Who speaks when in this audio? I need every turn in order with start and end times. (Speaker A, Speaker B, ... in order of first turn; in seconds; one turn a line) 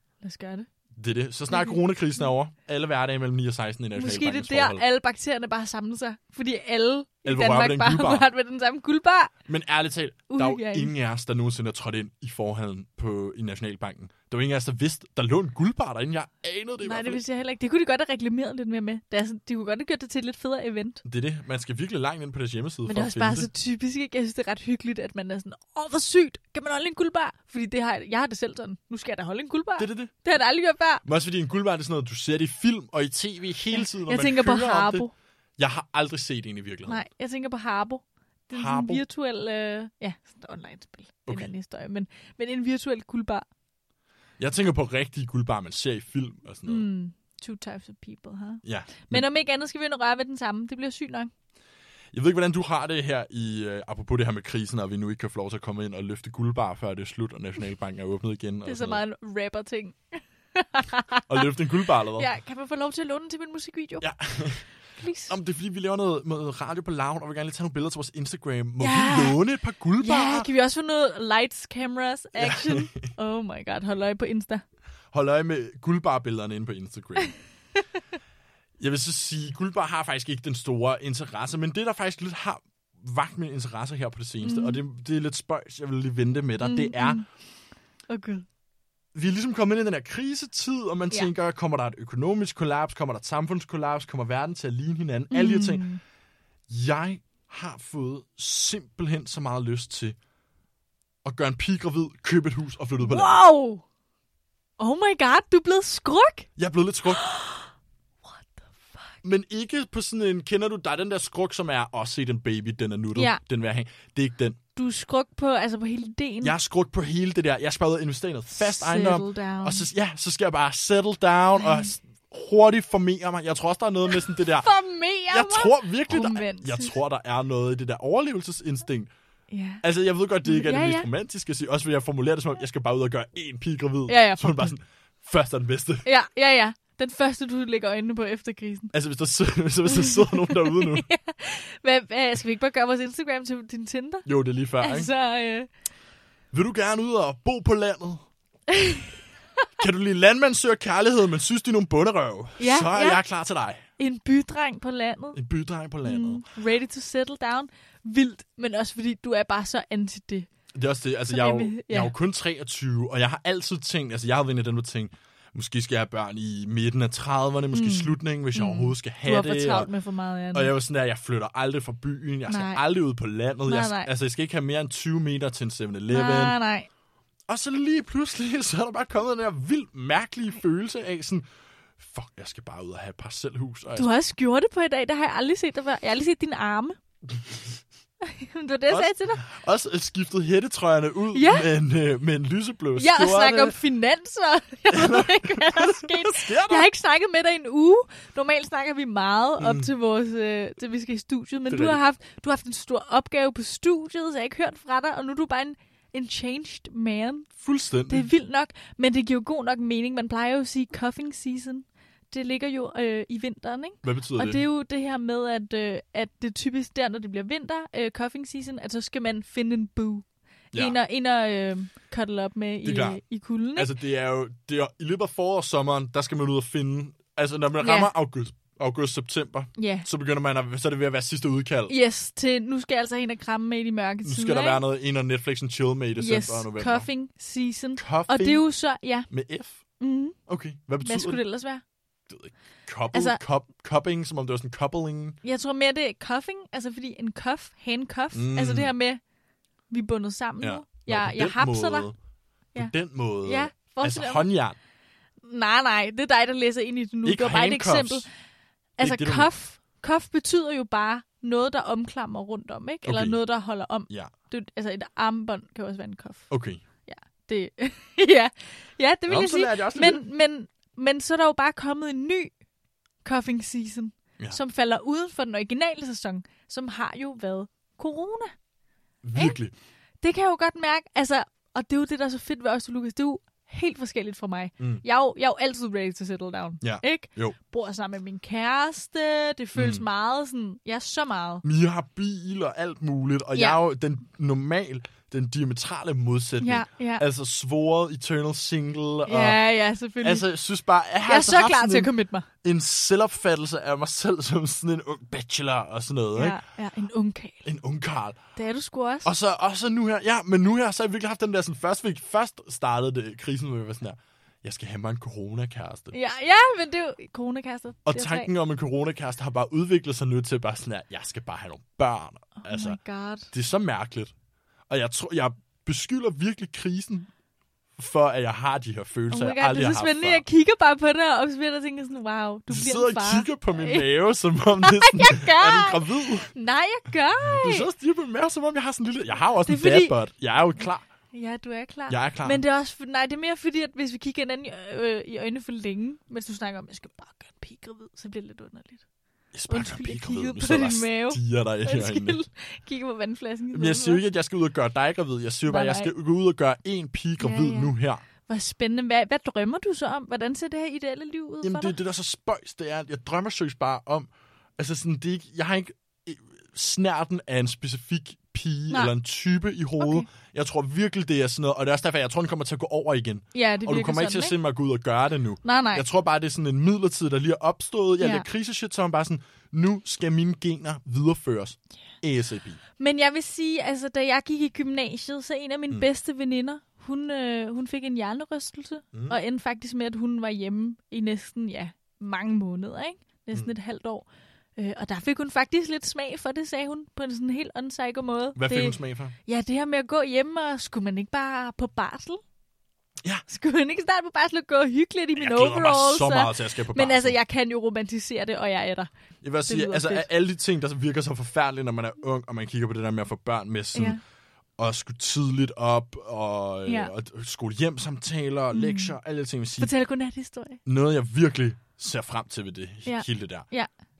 Speaker A: 0.2-0.7
Speaker B: 0.9-4.8
Speaker A: 1.5-1.8
Speaker A: 3.9-9.3
Speaker B: 7.2-8.3
Speaker B: 9.5-17.2
Speaker A: 10.3-10.9
Speaker A: 16.8-21.0
Speaker B: 21.0-23.5
Speaker A: 22.9-31.0
Speaker B: 29.8-30.1
Speaker B: 31.0-37.0
Speaker A: 33.7-35.1
Speaker A: 36.9-43.4
Speaker B: 38.5-39.0
Speaker B: 44.4-46.9
Speaker A: 46.6-51.3
Speaker B: 48.6-49.2
Speaker B: 52.1-59.0
Speaker A: 58.6-61.5
Speaker B: 61.3-62.3
Speaker A: 62.1-64.1
Speaker B: 64.0-64.6
Speaker A: 65.0-65.3
Speaker B: 65.2-70.5
Speaker A: 68.8-69.4
Speaker A: 70.0-74.6
Speaker B: 72.4-73.1
Speaker B: 75.1-77.3
Speaker B: 78.8-87.2
Speaker A: 84.4-84.8
Speaker A: 86.6-87.2
Speaker A: 88.1-88.5
Speaker B: 89.1-95.8
Speaker A: 95.3-96.0
Speaker B: 96.7-100.2
Speaker B: 101.2-103.4
Speaker A: 103.0-103.8
Speaker A: 104.8-106.5
Speaker B: 106.6-107.2
Speaker A: 107.0-107.7
Speaker A: 108.2-109.1
Speaker B: 109.2-114.6
Speaker A: 113.1-113.4
Speaker A: 114.8-116.5
Speaker B: 116.4-124.7
Speaker A: 118.5-119.9
Speaker A: 121.6-121.9
Speaker A: 124.3-127.0
Speaker B: 125.3-129.1
Speaker A: 129.5-129.8
Speaker B: 129.8-136.1
Speaker A: 130.4-131.1
Speaker A: 134.1-134.7
Speaker A: 136.0-138.9
Speaker B: 138.9-141.1
Speaker A: 139.9-144.2
Speaker B: 144.2-145.1
Speaker A: 144.8-145.7
Speaker B: 146.5-148.2
Speaker A: 148.7-149.1
Speaker B: 149.8-153.8
Speaker A: 152.6-153.2
Speaker A: 154.0-155.4
Speaker B: 155.3-156.4
Speaker A: 156.0-160.5
Speaker B: 160.7-169.9
Speaker A: 161.3-162.1
Speaker A: 167.7-170.7
Speaker B: 170.5-176.6
Speaker A: 172.5-172.8
Speaker A: 173.7-174.1
Speaker A: 176.1-176.9
Speaker B: 177.5-181.4
Speaker B: 182.0-184.1
Speaker A: 183.9-187.0
Speaker A: 188.2-189.4
Speaker B: 188.9-193.8
Speaker A: 191.3-191.7
Speaker A: 192.9-207.5
Speaker B: 194.9-196.9
Speaker B: 199.6-199.9
Speaker B: 201.7-202.0
Speaker B: 207.6-208.3
Speaker A: 208.1-223.9
Speaker B: 214.0-214.6
Speaker B: 222.8-223.2
Speaker B: 223.7-231.9
Speaker A: 227.8-228.1
Speaker A: 229.8-230.1
Speaker A: 231.9-234.8
Speaker B: 234.2-237.1
Speaker A: 236.2-239.3
Speaker B: 237.9-238.6
Speaker B: 239.3-239.8
Speaker A: 240.0-240.4
Speaker B: 240.5-241.4
Speaker A: 241.0-241.8
Speaker B: 242.3-245.4
Speaker A: 243.1-243.4
Speaker A: 245.4-249.2
Speaker B: 248.3-248.9
Speaker A: 249.9-252.1
Speaker B: 250.6-252.2
Speaker B: 252.8-254.8
Speaker A: 253.4-254.4
Speaker A: 255.4-258.3
Speaker B: 257.2-258.3
Speaker A: 259.0-266.5
Speaker B: 259.0-259.5
Speaker B: 263.0-263.4
Speaker B: 266.5-266.8
Speaker A: 267.1-272.5
Speaker B: 269.3-270.2
Speaker A: 273.2-278.5
Speaker B: 279.2-279.7
Speaker A: 280.2-291.6
Speaker B: 286.8-287.6
Speaker B: 289.7-290.0
Speaker B: 291.6-299.6
Speaker A: 296.6-297.2
Speaker A: 299.3-300.5
Speaker B: 300.2-302.1
Speaker A: 301.2-302.5
Speaker B: 302.6-306.6
Speaker A: 306.3-307.6
Speaker B: 307.6-308.4
Speaker A: 308.6-309.3
Speaker B: 309.2-316.1
Speaker A: 316.1-318.5
Speaker B: 318.1-323.0
Speaker A: 322.6-323.5
Speaker B: 323.5-324.3
Speaker B: 324.9-327.3
Speaker B: 328.0-330.4
Speaker A: 329.3-334.1
Speaker B: 332.7-336.5
Speaker A: 334.8-337.9
Speaker B: 337.4-341.0
Speaker A: 339.6-340.1
Speaker A: 341.3-349.0
Speaker B: 342.1-342.6
Speaker B: 349.5-352.4
Speaker A: 349.7-354.2
Speaker B: 353.7-358.2
Speaker A: 355.7-356.1
Speaker A: 357.4-362.0
Speaker B: 361.6-382.8
Speaker A: 370.0-370.3
Speaker A: 373.5-374.6
Speaker A: 375.6-376.0
Speaker A: 378.2-378.5
Speaker A: 383.0-402.4
Speaker B: 398.5-399.3
Speaker A: 403.5-409.1
Speaker B: 405.4-407.4
Speaker B: 409.4-414.2
Speaker A: 409.7-410.3
Speaker A: 413.9-414.2
Speaker B: 414.8-419.9
Speaker A: 416.9-417.1
Speaker A: 418.7-419.1
Speaker A: 419.8-420.8
Speaker B: 420.9-423.7
Speaker A: 423.1-423.9